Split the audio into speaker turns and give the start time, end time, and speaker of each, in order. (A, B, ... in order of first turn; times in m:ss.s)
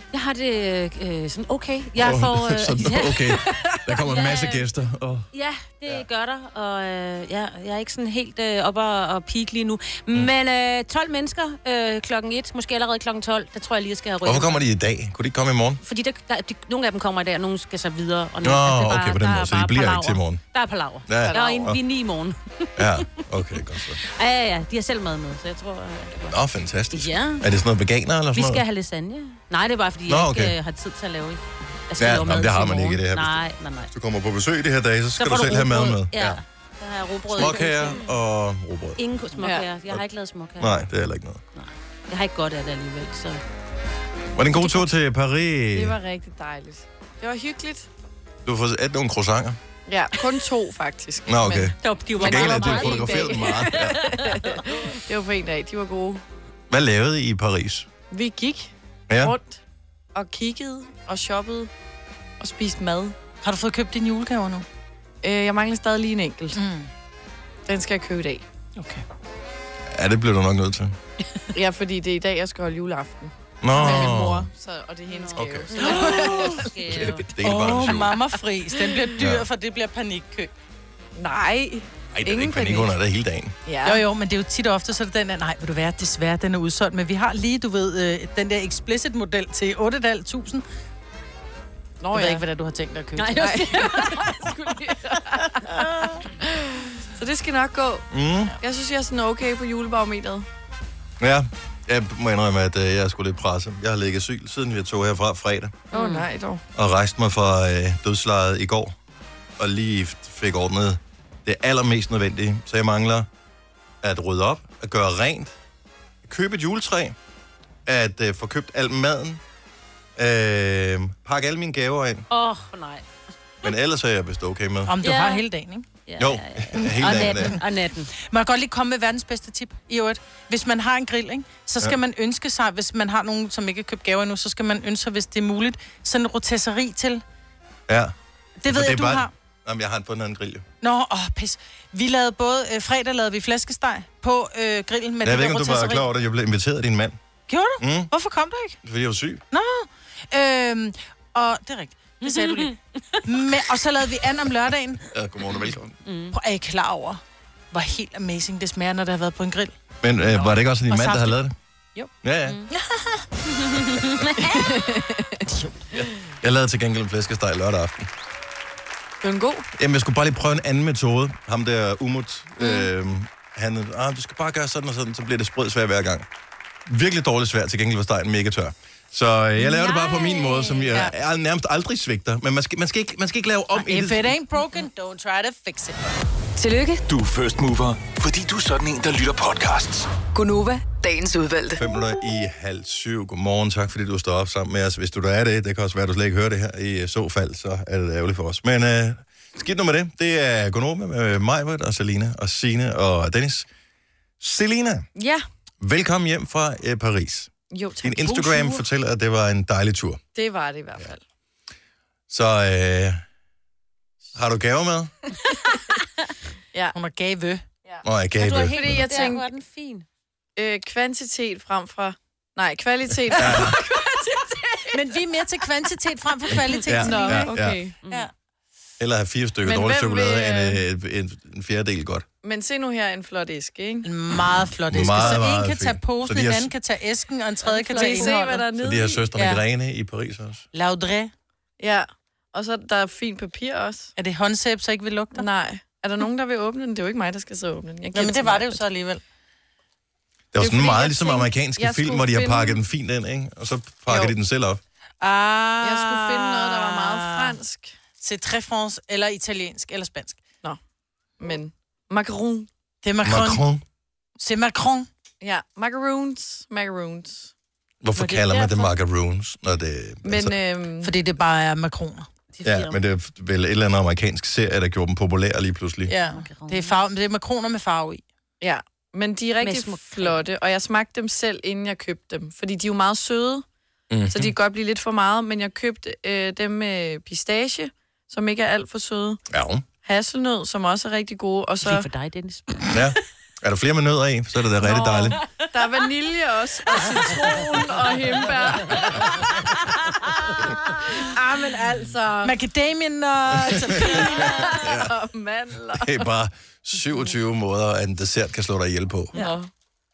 0:00.1-0:04.7 A
0:02.0-0:05.3 B
0:05.3-0:14.7 A
0:14.2-0:15.8 B
0:15.8-0:23.0 A
0:18.4-0:20.4 B
0:21.1-0:21.8 B
0:21.3-0:21.8 C
0:22.8-0:24.0 B
0:23.9-0:26.4 A
0:26.3-0:28.6 B
0:26.9-0:27.4 A
0:28.3-0:33.9 A
0:30.1-0:30.6 B
0:32.0-0:33.4 B
0:33.9-0:36.4 B
0:35.2-0:38.0 A
0:37.4-0:39.0 B
0:39.0-0:40.9 A
0:39.4-0:39.7 C
0:40.6-0:41.4 B
0:41.5-0:43.4 A
0:44.4-0:46.0 B
0:45.7-0:47.9 C
0:48.4-0:49.6 B
0:49.9-0:56.2 C
0:51.3-0:54.0 B
0:51.8-0:54.5 A
0:56.7-0:57.9 B
0:58.1-0:59.6 C
0:59.1-0:59.4 B
1:00.2-1:01.7 C
1:02.4-1:03.1 C
1:03.4-1:04.7 D
1:05.2-1:06.6 C
1:06.5-1:06.9 D
1:07.7-1:08.4 C
1:08.8-1:09.0 D
1:09.9-1:11.0 B
1:11.5-1:16.6 C
1:13.6-1:14.5 B
1:15.1-1:17.3 A
1:15.4-1:15.7 B
1:15.8-1:16.6 D
1:16.7-1:18.2 B
1:17.4-1:20.5 D
1:19.2-1:19.5 B
1:21.2-1:22.9 C
1:22.2-1:23.6 B
1:23.7-1:24.0 C
1:23.8-1:30.6 D
1:32.0-1:32.4 C
1:32.1-1:34.0 D
1:33.2-1:33.9 A
1:33.4-1:35.8 C
1:36.4-1:38.1 C
1:38.1-1:38.6 B
1:38.6-1:40.5 C
1:41.2-1:45.8 B
1:45.9-1:46.2 A
1:45.9-1:46.6 C
1:46.8-1:49.0 B
1:49.6-1:53.3 B
1:54.0-1:55.6 B
1:56.2-1:57.2 B
1:57.9-1:59.4 B
2:00.2-2:02.2 B
2:02.3-2:03.0 A
2:03.6-2:05.0 B
2:04.9-2:05.9 D
2:05.0-2:05.4 A
2:06.1-2:08.1 A
2:06.2-2:07.6 B
2:08.2-2:17.2 D
2:17.9-2:18.1 B
2:18.6-2:19.3 D
2:18.7-2:20.6 B
2:20.8-2:26.1 D
2:25.2-2:27.2 B
2:27.5-2:28.8 D
2:27.8-2:28.1 B
2:28.8-2:29.4 B
2:29.5-2:35.0 D
2:32.3-2:32.7 A
2:35.1-2:35.9 B
2:35.6-2:36.3 A
2:36.3-2:39.8 D
2:40.0-2:41.6 B
2:40.3-2:41.4 D
2:42.2-2:42.6 B
2:42.7-2:43.3 D
2:43.6-2:44.6 A
2:44.6-2:45.4 C
2:45.4-2:45.7 D
2:46.0-2:48.1 B
2:49.2-2:49.7 C
2:49.8-2:56.3 B
2:56.9-3:04.4 B
2:59.7-3:01.0 A
3:03.7-3:06.0 D
3:06.6-3:07.0 E
3:07.1-3:10.2 F
3:10.3-3:11.8 E
3:11.8-3:23.7 B
3:24.4-3:25.1 B
3:25.2-3:25.4 C
3:25.8-3:30.2 B
3:27.7-3:28.7 C
3:30.4-3:31.2 C
3:32.3-3:33.2 B
3:34.3-3:35.1 B
3:37.0-3:37.6 D
3:38.0-3:39.0 B
3:38.4-3:40.1 A
3:38.8-3:39.4 D
3:38.8-3:39.4 C
3:40.6-3:45.0 C
3:43.3-3:43.8 B
3:44.9-3:47.5 D
3:46.9-3:47.8 B
3:46.9-3:48.0 C
3:48.0-3:48.3 A
3:49.0-3:52.2 B
3:49.6-3:50.8 C
3:52.4-3:54.1 C
3:54.0-3:58.6 D
3:54.9-3:56.7 B
3:55.0-3:55.4 C
3:57.6-3:59.2 C
3:57.9-3:58.2 A
3:58.8-4:00.6 B
3:59.4-3:59.6 D
4:00.7-4:01.3 D
4:01.8-4:04.1 C
4:04.2-4:05.4 D
4:05.4-4:08.8 C
4:08.1-4:09.2 D
4:10.5-4:14.8 B
4:10.6-4:12.8 C
4:14.1-4:14.3 C
4:15.2-4:17.6 D
4:15.8-4:17.9 C
4:18.2-4:20.4 D
4:21.4-4:22.7 C
4:23.0-4:23.6 D
4:23.2-4:23.8 B
4:24.4-4:25.1 D
4:25.4-4:27.5 C
4:28.0-4:30.6 B
4:28.2-4:28.9 C
4:30.2-4:31.1 C
4:31.0-4:32.3 D
4:32.5-4:33.0 A
4:32.6-4:36.1 B
4:36.1-4:38.2 D
4:36.3-4:37.0 A
4:38.6-4:43.6 C
4:39.6-4:40.4 A
4:44.1-4:44.5 B
4:44.3-4:49.4 C
4:49.5-4:49.8 B
4:50.0-4:52.1 C
4:51.8-4:53.1 A
4:52.9-4:55.4 B
4:55.0-4:55.4 A
4:55.7-4:59.4 C
5:01.2-5:02.6 C
5:02.4-5:04.7 D
5:03.7-5:06.2 C
5:04.7-5:05.1 B
5:05.9-5:09.3 B
5:09.4-5:09.7 C